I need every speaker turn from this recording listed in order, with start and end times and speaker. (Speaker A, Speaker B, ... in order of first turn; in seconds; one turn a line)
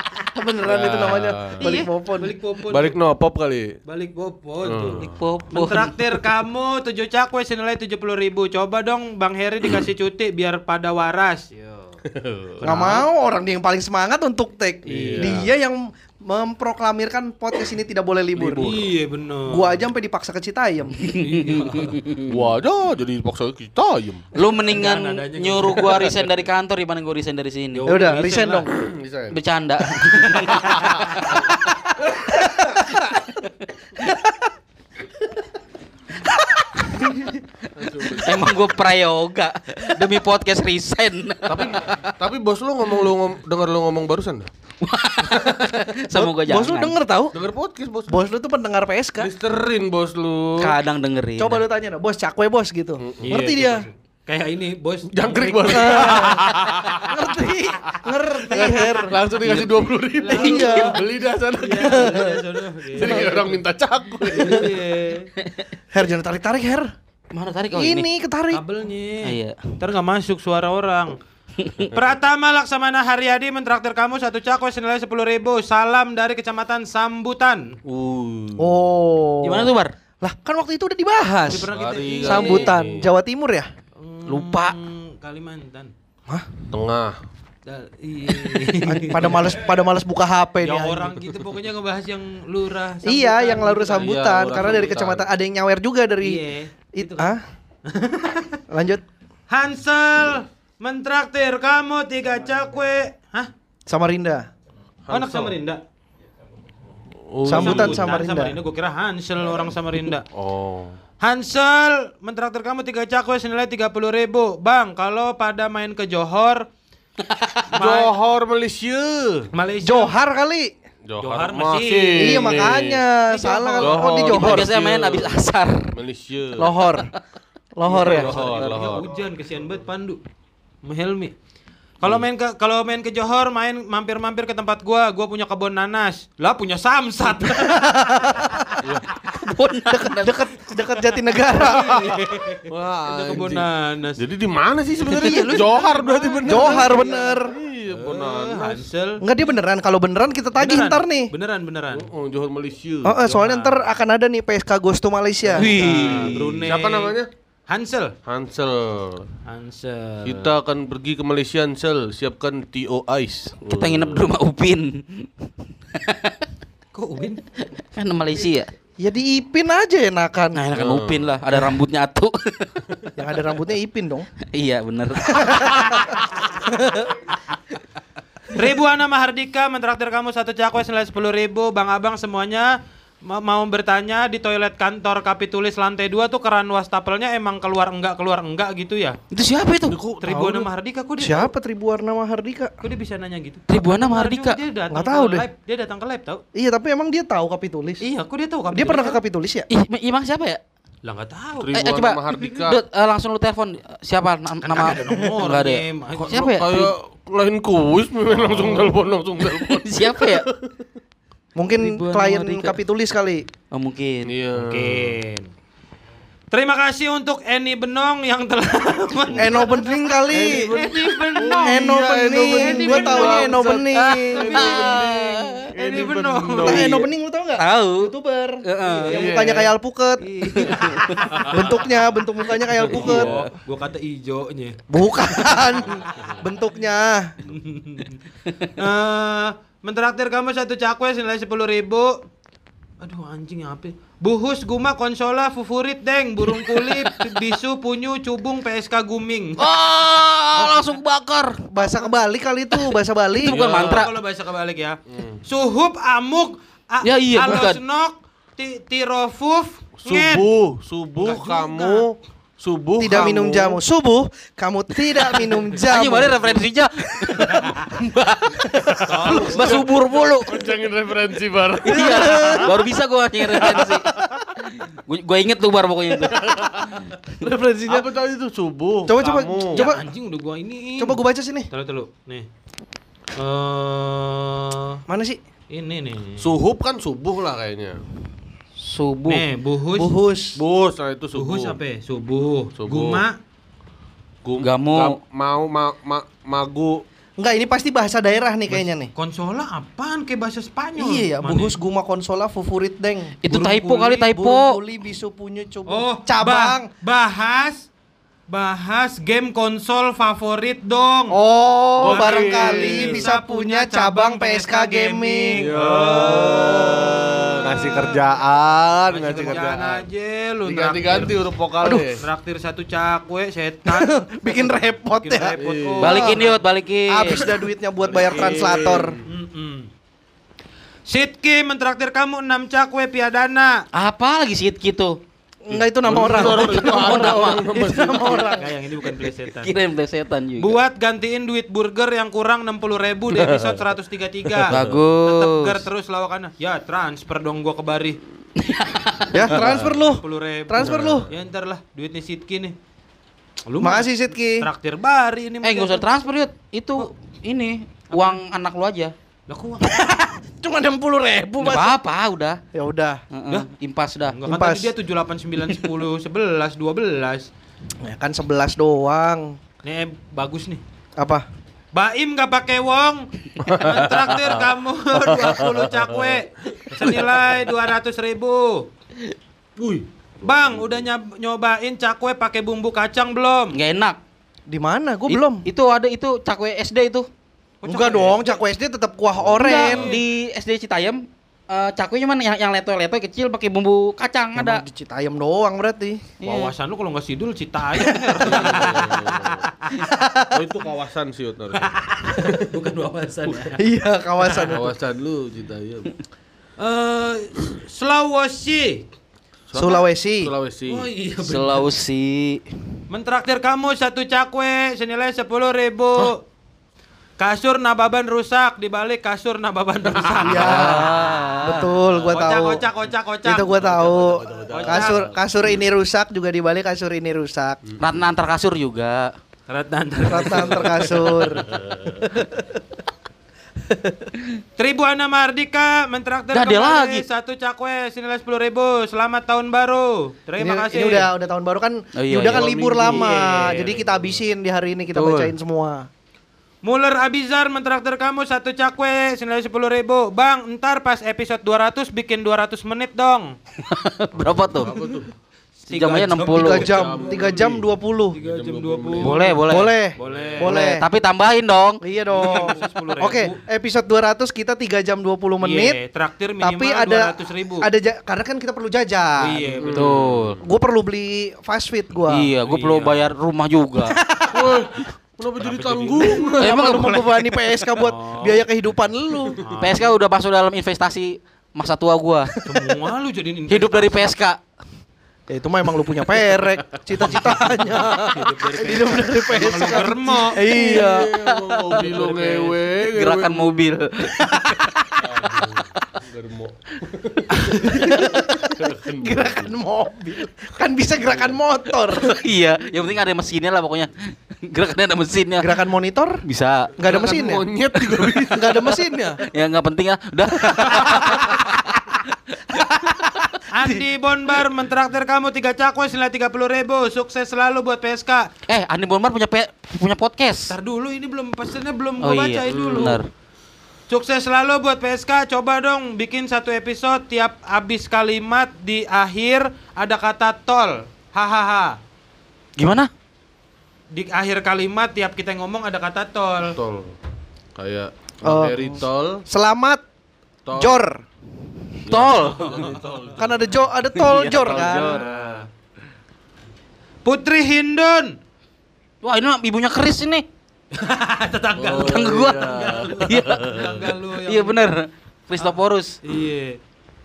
Speaker A: 0.3-2.3
Speaker B: 0.6-1.7
Speaker C: 1.6-3.0
Speaker B: 2.6-3.7
Speaker C: 3.9-11.9
Speaker B: 4.6-5.2
Speaker D: 5.0-6.0
Speaker B: 12.1-12.5
Speaker C: 12.6-13.1
Speaker A: 12.6-18.8
Speaker B: 14.9-15.4
Speaker C: 14.9-15.5
Speaker C: 18.4-19.8
Speaker A: 19.5-20.9
Speaker D: 21.0-22.4
Speaker C: 21.1-22.0
Speaker B: 22.3-24.2
Speaker D: 24.3-28.0
Speaker C: 24.6-26.2
Speaker C: 27.7-28.7
Speaker A: 27.9-28.7
Speaker B: 28.8-29.4
Speaker D: 29.3-31.4
Speaker B: 30.5-31.1
Speaker D: 33.0-34.3
Speaker D: 36.3-37.3
Speaker B: 37.7-38.8
Speaker D: 38.1-42.1
Speaker B: 41.5-44.5
Speaker D: 44.8-46.9
Speaker A: 46.1-47.3
Speaker B: 47.3-48.1
Speaker A: 48.1-49.3
Speaker B: 49.2-50.7
Speaker D: 50.6-51.6
Speaker A: 51.4-53.9
Speaker B: 53.0-53.9
Speaker C: 53.2-53.7
Speaker C: 54.2-57.0
Speaker B: 55.1-57.2
Speaker A: 55.7-56.5
Speaker A: 57.1-59.2
Speaker D: 57.1-57.6
Speaker B: 58.4-64.8
Speaker D: 59.4-59.9
Speaker C: 60.2-61.0
Speaker A: 60.3-61.0
Speaker C: 61.6-63.6
Speaker A: 61.8-62.3
Speaker A: 63.0-63.3
Speaker C: 64.3-65.3
Speaker D: 65.4-65.7
Speaker A: 65.9-66.9
Speaker D: 67.3-68.1
Speaker A: 67.7-68.6
Speaker C: 68.5-71.1
Speaker D: 69.2-69.8
Speaker D: 71.6-71.9
Speaker C: 71.9-77.8
Speaker B: 77.8-78.7
Speaker A: 78.6-81.7
Speaker D: 79.4-79.9
Speaker C: 81.5-82.8
Speaker B: 81.6-83.1
Speaker A: 82.2-83.7
Speaker C: 84.0-85.9
Speaker D: 84.3-84.7
Speaker B: 86.7-87.2
Speaker C: 87.7-89.5
Speaker A: 88.8-91.2
Speaker C: 90.6-95.0
Speaker A: 93.0-97.4
Speaker B: 94.0-95.3
Speaker C: 96.2-97.3
Speaker C: 97.8-98.6
Speaker A: 98.7-99.0
Speaker C: 99.5-103.5
Speaker A: 103.9-104.5
Speaker B: 105.0-105.5
Speaker C: 105.1-105.8
Speaker B: 107.3-108.0
Speaker A: 107.4-108.5
Speaker C: 107.5-110.2
Speaker B: 110.3-111.0
Speaker C: 111.2-116.7
Speaker C: 117.7-118.1
Speaker B: 117.7-119.5
Speaker C: 119.5-120.1
Speaker A: 119.8-120.7
Speaker B: 121.1-123.0
Speaker C: 121.2-122.7
Speaker A: 122.1-124.7
Speaker C: 123.3-124.0
Speaker B: 123.8-126.8
Speaker D: 124.1-125.9
Speaker A: 126.6-127.1
Speaker A: 127.8-128.3
Speaker D: 127.8-128.9
Speaker B: 128.0-129.1
Speaker C: 128.0-130.2
Speaker C: 130.8-131.3
Speaker C: 132.0-137.8
Speaker A: 137.6-138.8
Speaker B: 138.8-139.1
Speaker D: 139.2-140.4
Speaker A: 139.9-142.2
Speaker C: 141.5-144.2
Speaker B: 142.7-148.8
Speaker C: 145.1-147.2
Speaker D: 145.2-145.5
Speaker A: 146.4-147.5
Speaker C: 147.9-149.2
Speaker A: 149.2-151.3
Speaker C: 150.6-152.1
Speaker B: 151.9-153.1
Speaker A: 153.0-155.7
Speaker C: 153.2-153.8
Speaker C: 155.5-158.1
Speaker D: 155.5-156.6
Speaker B: 155.8-157.3
Speaker B: 158.2-159.3
Speaker C: 159.4-160.5
Speaker B: 160.2-164.2
Speaker D: 163.6-166.5
Speaker C: 166.9-167.4
Speaker D: 167.8-168.7
Speaker A: 169.0-170.6
Speaker D: 170.5-172.7
Speaker B: 170.7-171.3
Speaker A: 173.2-174.3
Speaker D: 174.5-175.9
Speaker A: 175.3-177.1
Speaker C: 178.5-189.2
Speaker D: 189.3-189.9
Speaker B: 189.9-190.4
Speaker C: 190.2-191.5
Speaker A: 190.3-190.7
Speaker A: 191.2-192.7
Speaker C: 192.8-196.4
Speaker D: 193.7-194.6
Speaker A: 194.9-195.4
Speaker A: 196.5-198.0
Speaker C: 198.0-199.2
Speaker A: 198.7-199.7
Speaker D: 199.7-200.6
Speaker C: 201.0-201.7
Speaker B: 201.6-202.8
Speaker D: 201.7-206.9
Speaker C: 204.6-206.4
Speaker B: 206.1-210.7
Speaker D: 209.4-210.5
Speaker A: 211.6-213.4
Speaker D: 211.7-212.8
Speaker D: 213.7-214.3
Speaker B: 214.3-215.1
Speaker C: 214.5-215.5
Speaker C: 216.5-219.8
Speaker B: 219.3-219.6
Speaker A: 219.4-220.7
Speaker B: 220.3-227.1
Speaker D: 220.4-222.0
Speaker C: 220.6-221.6
Speaker A: 221.6-224.7
Speaker C: 222.4-223.6
Speaker D: 222.8-225.7
Speaker C: 224.3-225.0
Speaker C: 225.7-227.0
Speaker A: 226.6-230.9
Speaker D: 227.6-228.1
Speaker D: 228.6-229.2
Speaker C: 228.8-229.3
Speaker B: 229.1-229.7
Speaker C: 230.2-231.8
Speaker B: 231.3-231.6
Speaker A: 231.5-233.3
Speaker C: 232.8-234.8
Speaker B: 232.9-233.5
Speaker A: 234.9-237.3
Speaker C: 237.5-238.1
Speaker C: 238.8-242.2
Speaker C: 243.0-249.7
Speaker D: 246.7-247.3
Speaker D: 249.6-251.7
Speaker A: 251.7-253.5
Speaker D: 252.9-254.1
Speaker C: 253.4-260.5
Speaker B: 255.1-255.4
Speaker D: 257.0-257.8
Speaker B: 260.0-263.8
Speaker C: 261.2-262.1
Speaker A: 263.0-266.6
Speaker D: 265.8-268.7
Speaker B: 268.8-272.6
Speaker C: 269.0-269.9
Speaker D: 269.3-270.6
Speaker D: 271.8-274.0
Speaker A: 271.9-272.7
Speaker A: 273.5-274.4
Speaker D: 274.6-276.4
Speaker B: 276.2-277.1
Speaker A: 277.4-278.1
Speaker B: 277.9-279.8
Speaker A: 279.1-280.0
Speaker C: 279.7-281.2
Speaker A: 281.0-281.7
Speaker C: 281.7-282.5
Speaker C: 283.4-285.0
Speaker A: 285.1-285.4
Speaker C: 285.7-286.6
Speaker B: 286.4-288.0
Speaker D: 288.8-289.4
Speaker C: 289.3-290.1
Speaker A: 289.9-290.6
Speaker B: 290.6-291.8
Speaker C: 291.3-293.4
Speaker B: 292.8-293.2
Speaker B: 294.4-297.0
Speaker D: 294.6-295.2
Speaker A: 297.4-299.1
Speaker C: 299.1-301.8
Speaker A: 301.0-303.4
Speaker D: 303.4-304.8
Speaker C: 303.5-304.2
Speaker A: 304.2-306.9
Speaker C: 305.9-307.9
Speaker C: 308.5-311.4
Speaker A: 311.3-315.7
Speaker B: 312.0-313.2
Speaker C: 312.0-318.2
Speaker B: 315.6-320.0
Speaker A: 316.4-317.3
Speaker C: 319.1-321.5
Speaker B: 320.6-322.2
Speaker C: 322.2-324.1
Speaker A: 323.9-326.5
Speaker C: 325.1-326.5
Speaker B: 325.6-326.3
Speaker D: 326.0-327.5
Speaker A: 327.1-329.1
Speaker B: 328.0-329.2
Speaker C: 329.3-329.9
Speaker C: 331.1-333.8
Speaker D: 333.9-335.2
Speaker A: 335.6-338.7
Speaker B: 335.7-338.6
Speaker D: 336.1-337.7
Speaker C: 338.6-339.7
Speaker D: 339.6-340.8
Speaker C: 340.6-348.2
Speaker B: 343.3-343.8
Speaker B: 344.5-345.0
Speaker D: 344.7-345.8
Speaker D: 348.6-349.6
Speaker A: 349.3-351.3
Speaker B: 349.5-349.9
Speaker C: 349.6-352.7
Speaker B: 350.8-351.3
Speaker C: 353.6-356.1
Speaker A: 353.8-354.7
Speaker D: 355.6-359.1
Speaker C: 358.1-358.4
Speaker C: 359.5-360.2
Speaker A: 359.9-362.0
Speaker D: 361.6-362.6
Speaker A: 362.7-363.2
Speaker D: 363.3-364.4
Speaker C: 364.3-367.5
Speaker A: 364.4-364.9
Speaker A: 368.0-369.6
Speaker C: 369.8-370.8
Speaker A: 371.2-371.4
Speaker C: 371.9-378.9
Speaker B: 373.6-377.2
Speaker B: 379.8-381.1
Speaker C: 380.4-383.8
Speaker D: 383.7-384.2
Speaker A: 384.7-385.6
Speaker D: 385.3-387.3
Speaker C: 387.8-388.5
Speaker A: 387.8-390.1
Speaker B: 389.4-390.2
Speaker D: 389.6-394.8
Speaker A: 394.6-396.2
Speaker D: 396.4-396.7
Speaker C: 396.4-400.0
Speaker A: 398.1-398.4
Speaker B: 398.4-399.7
Speaker A: 400.1-400.4
Speaker B: 400.5-402.6
Speaker C: 401.8-403.8
Speaker A: 403.8-404.9
Speaker C: 404.4-404.7
Speaker B: 404.6-406.1
Speaker C: 406.8-409.0
Speaker B: 409.7-411.1
Speaker A: 409.7-410.5
Speaker C: 410.9-411.9
Speaker D: 411.4-412.6
Speaker C: 413.1-416.4
Speaker C: 417.4-421.3
Speaker B: 420.1-421.0
Speaker A: 420.4-422.8
Speaker D: 420.5-421.9
Speaker C: 422.2-425.2
Speaker A: 423.4-427.8
Speaker B: 423.9-425.3
Speaker D: 428.0-429.3
Speaker C: 429.7-431.6
Speaker A: 430.2-431.7
Speaker B: 431.8-432.1
Speaker C: 432.2-432.6
Speaker C: 434.8-441.3
Speaker D: 436.5-437.2
Speaker A: 440.6-446.1
Speaker D: 442.1-443.2
Speaker C: 442.6-444.0
Speaker B: 443.6-444.4
Speaker D: 445.1-445.5
Speaker C: 446.8-453.5
Speaker D: 453.8-454.9
Speaker B: 454.4-455.3
Speaker C: 455.8-457.5
Speaker D: 455.9-456.9
Speaker A: 456.5-458.4
Speaker B: 456.8-459.6
Speaker C: 458.3-459.6
Speaker D: 459.2-459.9
Speaker A: 459.6-461.0
Speaker C: 460.1-460.7
Speaker B: 460.2-460.6
Speaker D: 460.7-462.0
Speaker A: 462.0-466.0
Speaker C: 462.3-463.6
Speaker C: 465.6-467.9
Speaker A: 466.6-469.7
Speaker C: 469.4-470.1
Speaker B: 469.8-470.6
Speaker D: 469.9-470.6
Speaker A: 470.6-472.5
Speaker D: 472.3-474.2
Speaker C: 472.6-473.3
Speaker A: 474.1-474.8
Speaker B: 474.5-476.8
Speaker C: 475.6-476.6
Speaker A: 476.4-479.6
Speaker D: 476.6-477.9
Speaker C: 478.0-478.6
Speaker D: 479.8-482.5
Speaker C: 482.6-484.3
Speaker D: 483.7-484.6
Speaker A: 485.5-491.4
Speaker C: 488.2-490.6
Speaker B: 490.6-493.8
Speaker D: 490.9-495.2
Speaker C: 492.4-492.7
Speaker B: 495.2-499.7
Speaker A: 497.7-502.4
Speaker B: 501.3-501.5
Speaker D: 502.1-505.8
Speaker A: 505.6-506.4
Speaker D: 506.4-506.9
Speaker A: 507.0-507.6
Speaker B: 507.0-509.0
Speaker A: 508.5-509.4
Speaker D: 509.4-513.6
Speaker C: 513.7-518.5
Speaker D: 518.7-520.7
Speaker C: 520.7-523.2
Speaker D: 522.2-523.3
Speaker B: 522.7-523.2
Speaker C: 524.1-532.0
Speaker D: 532.8-533.1
Speaker C: 534.1-536.8
Speaker B: 536.7-537.1
Speaker B: 537.7-539.4
Speaker A: 538.4-540.0
Speaker B: 540.6-540.9
Speaker A: 540.7-541.2
Speaker B: 542.0-543.7
Speaker D: 542.0-542.9
Speaker C: 542.7-543.0
Speaker A: 543.3-545.2
Speaker D: 544.2-545.2
Speaker C: 544.2-545.5
Speaker B: 545.1-545.7
Speaker C: 547.2-548.4
Speaker D: 549.2-550.5
Speaker C: 550.9-554.8
Speaker B: 551.8-554.1
Speaker D: 551.9-553.9
Speaker D: 554.5-556.2
Speaker C: 555.6-556.8